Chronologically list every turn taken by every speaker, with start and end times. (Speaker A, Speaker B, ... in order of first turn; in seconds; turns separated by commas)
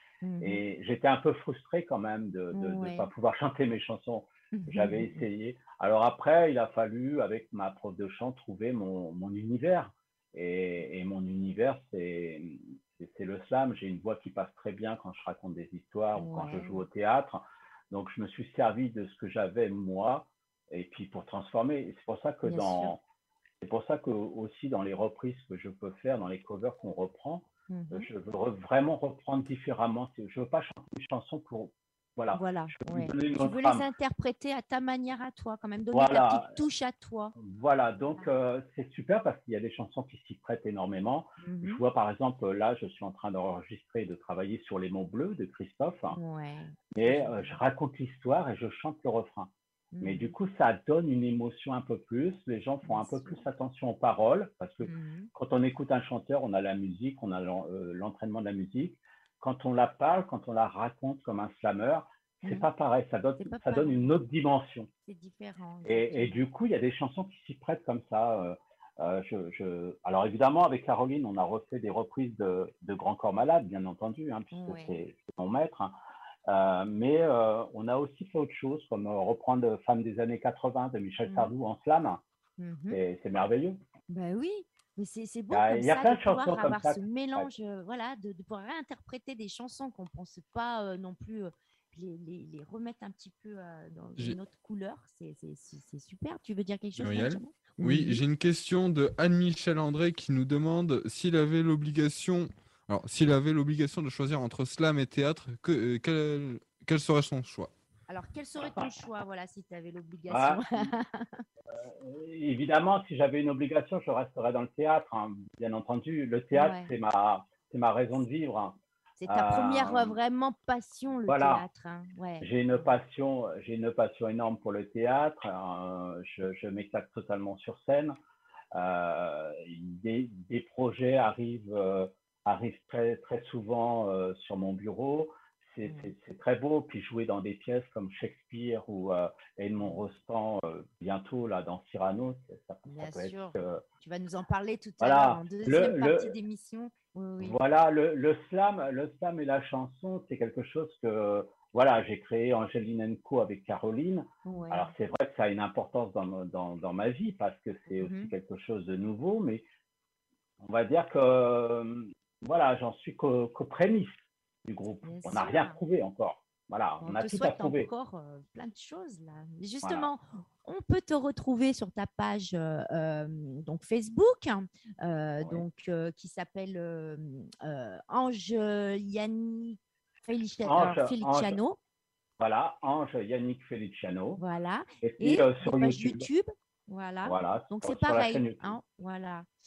Speaker A: 0.2-0.6, Speaker B: 0.4-23.0, Speaker A: 2.5-3.1, Speaker A: 4.5-5.2, Speaker A: 16.1-16.8, Speaker A: 22.4-22.9, Speaker B: 23.6-33.9, Speaker A: 27.7-28.1, Speaker A: 32.3-37.4, Speaker B: 35.9-36.6, Speaker B: 37.4-46.2, Speaker A: 41.4-41.8, Speaker A: 46.1-47.6, Speaker B: 46.9-64.9, Speaker A: 49.9-50.4, Speaker A: 52.8-53.4, Speaker A: 54.8-55.3, Speaker A: 63.4-64.1, Speaker A: 65.1-66.4, Speaker B: 65.9-76.0, Speaker A: 74.5-75.0, Speaker B: 76.5-82.2, Speaker A: 81.2-81.5, Speaker A: 82.6-83.0, Speaker B: 82.9-83.8, Speaker A: 84.1-98.2, Speaker B: 85.5-87.5, Speaker C: 97.0-107.7, Speaker A: 108.1-111.4, Speaker B: 108.6-108.9, Speaker B: 110.3-110.9, Speaker B: 111.7-120.2, Speaker A: 116.5-116.9, Speaker A: 119.2-122.9, Speaker B: 121.3-121.7, Speaker B: 122.4-128.2, Speaker B: 128.7-143.8, Speaker A: 135.8-136.1, Speaker A: 142.9-147.6, Speaker B: 145.0-146.3, Speaker B: 147.4-159.7, Speaker A: 154.4-154.9, Speaker A: 158.0-158.3, Speaker B: 160.6-167.9, Speaker A: 165.0-165.8, Speaker A: 167.0-181.8, Speaker B: 169.8-170.1, Speaker B: 180.6-181.6, Speaker B: 182.4-184.4, Speaker A: 184.4-189.5, Speaker B: 185.0-186.3, Speaker B: 187.2-188.8